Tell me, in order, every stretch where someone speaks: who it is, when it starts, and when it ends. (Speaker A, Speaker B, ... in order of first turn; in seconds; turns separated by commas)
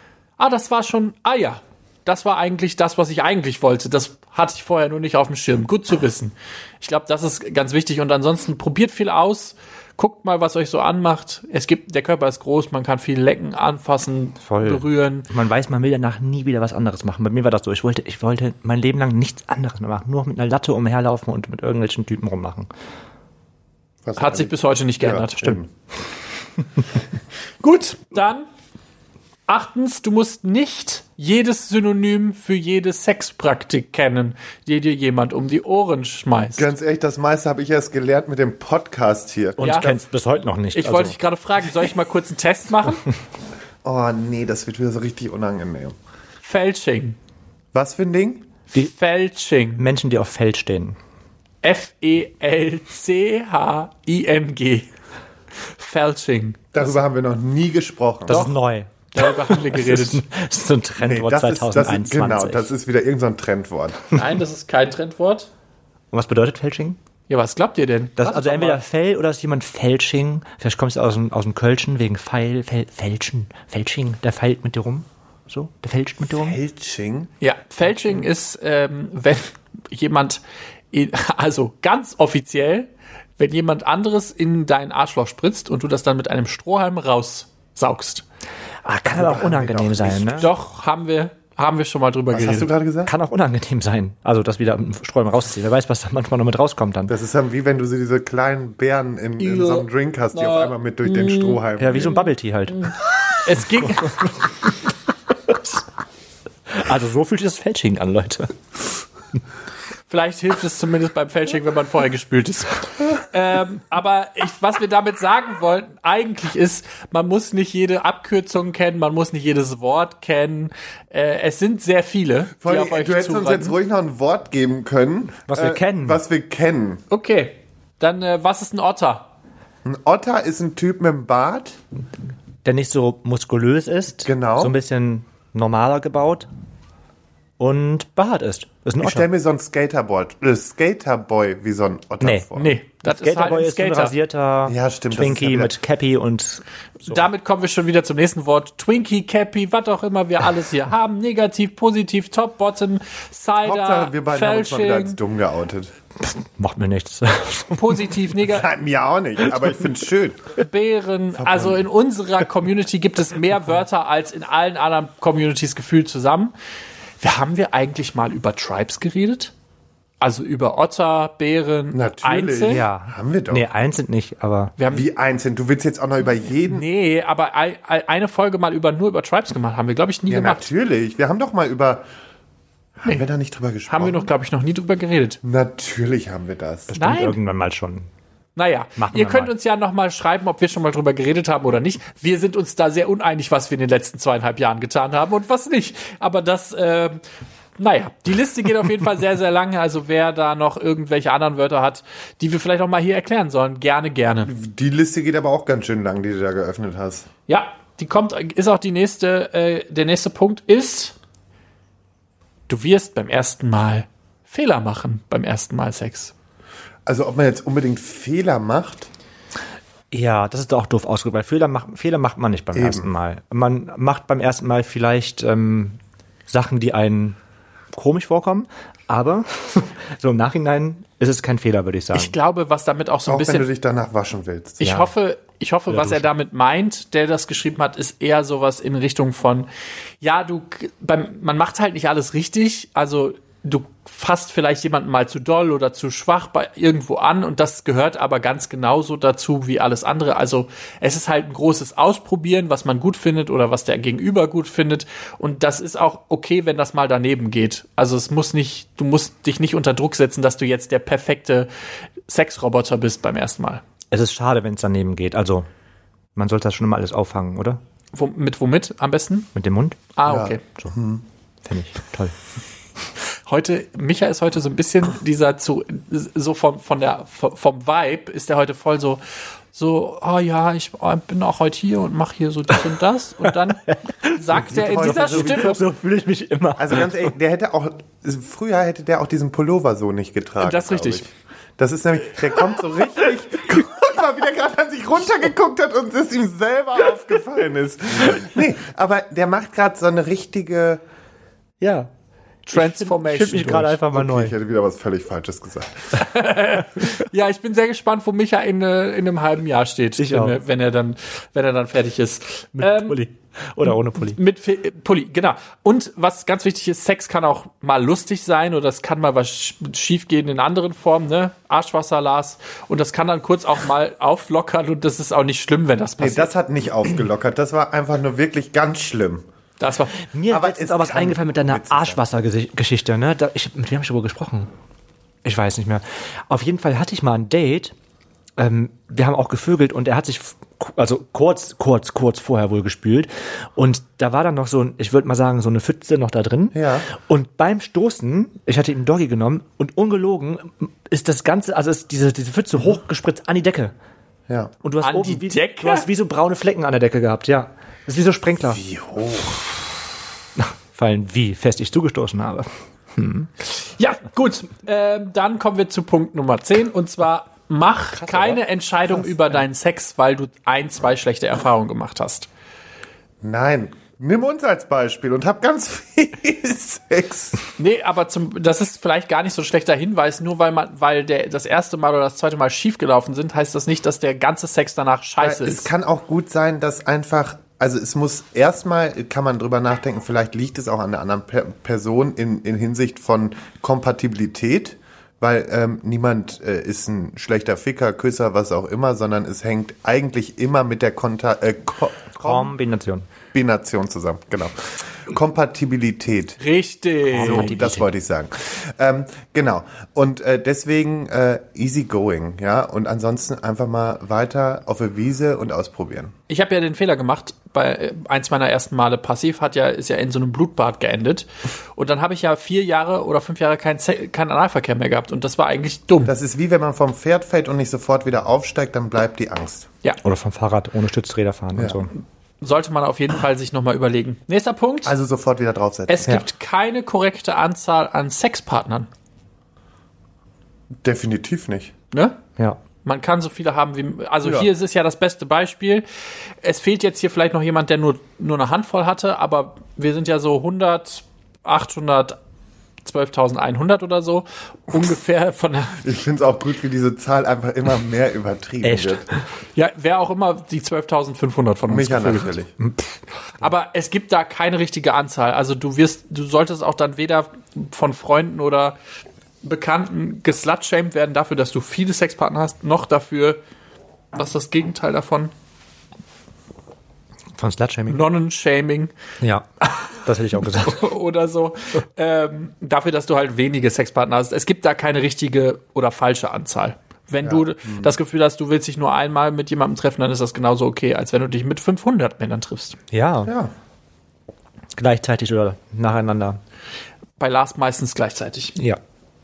Speaker A: 0.4-15.3, Speaker B: 14.4-22.7, Speaker C: 24.0-25.7, Speaker A: 24.2-25.6, Speaker A: 27.6-28.5, Speaker A: 29.5-36.7, Speaker C: 36.6-40.0, Speaker B: 39.6-41.2, Speaker A: 39.6-39.9, Speaker A: 40.7-43.0, Speaker C: 43.8-45.9, Speaker A: 46.4-47.1, Speaker C: 47.7-48.4, Speaker A: 48.7-49.8, Speaker B: 49.8-51.0, Speaker A: 51.6-54.9, Speaker A: 55.8-57.0, Speaker C: 56.7-58.4, Speaker B: 58.2-62.7, Speaker A: 58.3-58.5, Speaker A: 59.1-60.2, Speaker C: 61.0-64.0, Speaker A: 64.1-65.5, Speaker B: 66.1-67.0, Speaker A: 67.3-68.8, Speaker B: 68.2-76.6, Speaker C: 76.3-77.3, Speaker A: 77.4-88.2, Speaker B: 88.8-90.5, Speaker C: 89.1-90.5, Speaker A: 90.3-92.7, Speaker C: 92.3-93.1, Speaker B: 93.0-97.1, Speaker C: 97.1-102.1, Speaker A: 99.4-101.6, Speaker B: 101.8-102.9, Speaker A: 102.8-104.4, Speaker B: 103.8-104.0, Speaker B: 106.7-108.6, Speaker A: 110.1-123.8, Speaker C: 122.6-127.0, Speaker B: 125.5-126.2, Speaker A: 127.1-129.3, Speaker C: 129.8-131.8, Speaker B: 132.6-136.5, Speaker C: 134.2-134.7, Speaker B: 137.6-139.3, Speaker C: 139.0-142.7, Speaker B: 142.2-142.5, Speaker A: 142.5-144.1, Speaker B: 143.0-147.2, Speaker C: 144.7-145.7, Speaker A: 147.0-155.2, Speaker C: 153.6-155.9, Speaker B: 156.2-158.2, Speaker A: 157.8-158.7, Speaker C: 158.5-160.4, Speaker A: 160.6-166.5, Speaker C: 161.4-161.9, Speaker A: 167.2-169.5, Speaker A: 170.2-172.8, Speaker C: 171.9-173.7, Speaker B: 172.7-174.7, Speaker A: 174.8-175.0, Speaker C: 174.9-176.8, Speaker A: 176.7-180.7, Speaker C: 180.3-182.0, Speaker C: 183.0-184.3, Speaker A: 183.9-185.4, Speaker C: 185.4-186.9, Speaker B: 186.9-188.1, Speaker A: 186.9-187.4, Speaker A: 188.6-197.2, Speaker B: 189.0-189.5, Speaker A: 197.8-204.5, Speaker C: 204.5-207.2, Speaker A: 207.5-211.1, Speaker A: 212.7-216.3, Speaker C: 217.1-219.1, Speaker B: 220.1-227.4, Speaker C: 222.7-223.1, Speaker B: 227.9-232.3, Speaker A: 232.1-233.7, Speaker C: 233.3-234.9, Speaker A: 234.8-239.7, Speaker B: 234.8-235.1, Speaker B: 235.9-236.3, Speaker A: 240.2-261.7, Speaker A: 262.3-263.8, Speaker B: 264.1-265.7, Speaker B: 266.3-267.8, Speaker A: 268.1-269.5, Speaker B: 269.5-270.1, Speaker A: 270.2-270.6, Speaker C: 270.2-271.2, Speaker B: 271.6-272.4, Speaker A: 273.4-279.2, Speaker A: 279.7-285.8, Speaker B: 283.7-287.3, Speaker C: 284.5-285.8, Speaker C: 286.8-301.0, Speaker A: 290.6-291.3, Speaker B: 301.8-302.1, Speaker A: 302.7-304.0, Speaker B: 302.7-304.5, Speaker C: 304.1-306.1, Speaker A: 306.2-313.2, Speaker B: 310.2-310.6, Speaker B: 312.8-314.4, Speaker A: 314.2-326.5, Speaker C: 326.2-329.4, Speaker A: 329.8-330.2, Speaker B: 330.2-334.7, Speaker C: 330.5-332.2, Speaker B: 335.4-337.9, Speaker B: 338.6-353.9, Speaker C: 346.7-347.1, Speaker C: 354.5-354.7, Speaker B: 354.8-358.8, Speaker A: 355.0-356.1, Speaker C: 358.7-359.7, Speaker B: 360.6-363.5, Speaker A: 363.6-372.5, Speaker B: 368.2-368.6, Speaker C: 373.4-377.7, Speaker A: 377.8-385.9, Speaker C: 385.4-402.7, Speaker B: 402.4-403.3, Speaker C: 403.5-406.6, Speaker A: 406.6-407.8, Speaker B: 407.3-408.1, Speaker C: 407.4-416.3, Speaker A: 416.5-426.3, Speaker C: 426.3-429.9, Speaker B: 430.2-432.1, Speaker C: 431.7-432.0, Speaker A: 432.6-435.1, Speaker C: 435.0-436.4, Speaker A: 436.1-439.1, Speaker C: 441.0-441.9, Speaker A: 442.1-442.4, Speaker A: 443.0-446.0, Speaker A: 446.6-452.4, Speaker A: 453.0-456.0, Speaker C: 456.0-459.2, Speaker B: 458.8-459.3, Speaker A: 459.8-462.5, Speaker C: 461.9-462.7, Speaker A: 463.6-469.0, Speaker A: 469.6-473.6, Speaker A: 474.3-475.5, Speaker B: 477.5-478.2, Speaker A: 478.1-479.1, Speaker B: 479.4-481.1, Speaker A: 480.7-493.0, Speaker C: 487.4-488.1, Speaker B: 493.1-493.5, Speaker C: 493.4-493.7, Speaker B: 494.9-496.6, Speaker A: 497.4-498.8